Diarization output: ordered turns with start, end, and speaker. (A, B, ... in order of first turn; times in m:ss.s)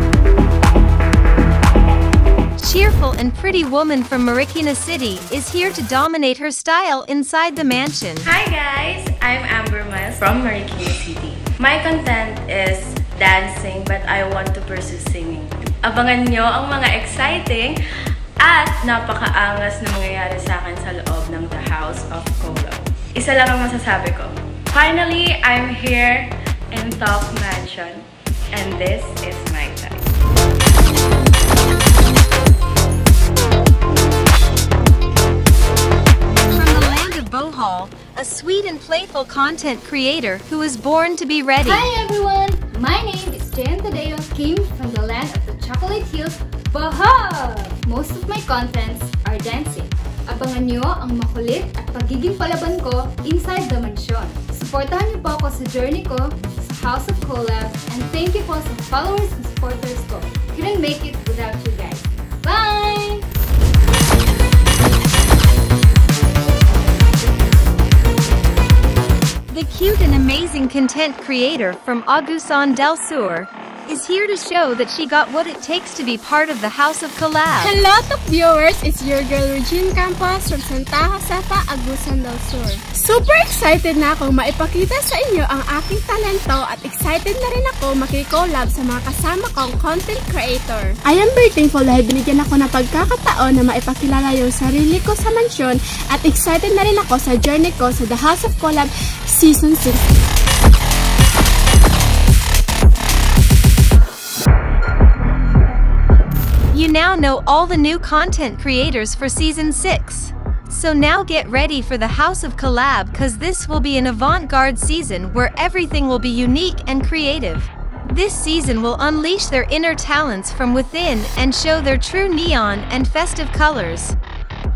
0:02.6-0:08.3 A
0:08.3-0:17.7 B
0:18.4-0:30.1 B
0:36.5-0:41.9 A
0:41.6-1:03.2 C
1:09.5-1:17.8 A
1:17.6-1:40.0 D
1:46.7-2:04.2 A